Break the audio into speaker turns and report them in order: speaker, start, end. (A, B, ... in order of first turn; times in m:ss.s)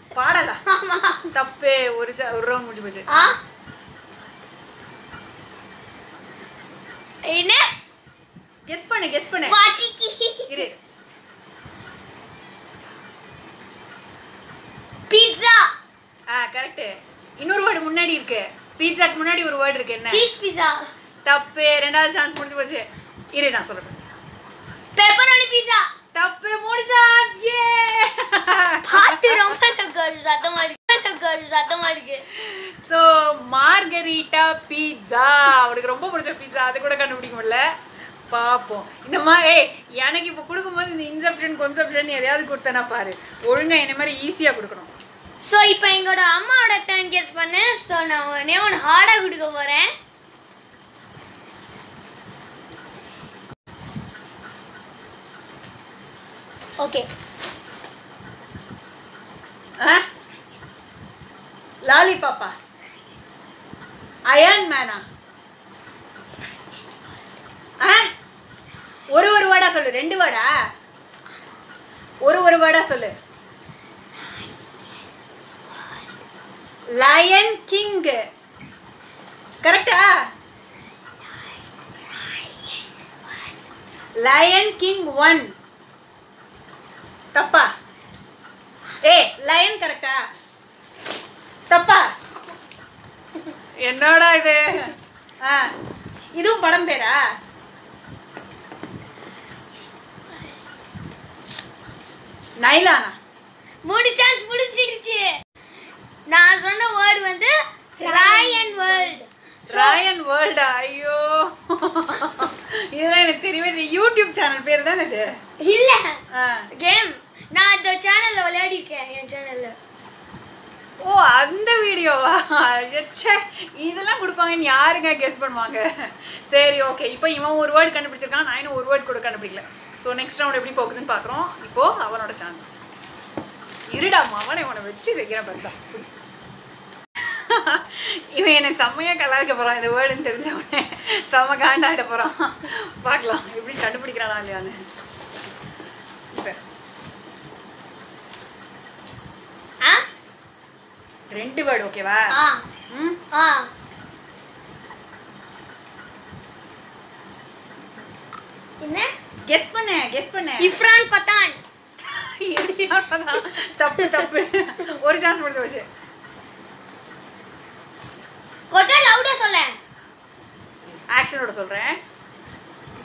0:00.1-0:00.6 A
0:00.6-0:01.3 B
0:01.3-0:03.3 A
0:03.1-0:03.4 B
0:07.3-0:07.6 B
0:08.6-0:09.6 A
0:09.5-0:10.6 B
0:10.5-0:10.8 A
0:15.1-0:15.7 B
0:16.3-0:20.2 A
0:20.1-0:20.8 B
0:21.2-0:24.0 A
0:24.9-0:25.9 B
0:26.1-0:29.5 A
0:28.8-0:32.2 B
0:32.3-0:37.7 A
0:38.3-0:44.9 A
0:45.4-0:49.9 B
0:56.8-0:57.0 B
0:59.8-1:00.0 A
1:01.9-1:02.5 A
1:04.3-1:05.0 A
1:07.8-1:08.0 A
1:09.1-1:10.5 A
1:12.2-1:13.1 A
1:16.9-1:18.2 A
1:19.6-1:20.1 A
1:22.2-1:22.7 B
1:24.2-1:25.5 A
1:27.3-1:27.7 A
1:29.0-1:30.2 A
1:31.7-1:32.1 A
1:33.8-1:35.7 A
1:36.3-1:37.2 A
1:42.6-1:43.1 A
1:43.8-1:45.3 B
1:46.3-1:50.0 B
1:48.0-1:49.2 A
1:49.7-1:55.3 A
1:55.6-1:56.2 B
1:56.3-1:56.7 A
1:56.8-1:59.7 B
2:01.0-2:12.7 A
2:13.9-2:16.1 A
2:17.2-2:24.8 A
2:31.3-2:32.3 A
2:32.3-2:32.6 B
2:32.9-2:33.2 A
2:33.3-2:33.7 B
2:38.8-2:39.1 B
2:39.5-2:40.8 A
2:40.6-2:41.6 B
2:42.0-2:45.8 A
2:48.7-2:49.8 B
2:51.1-2:52.0 A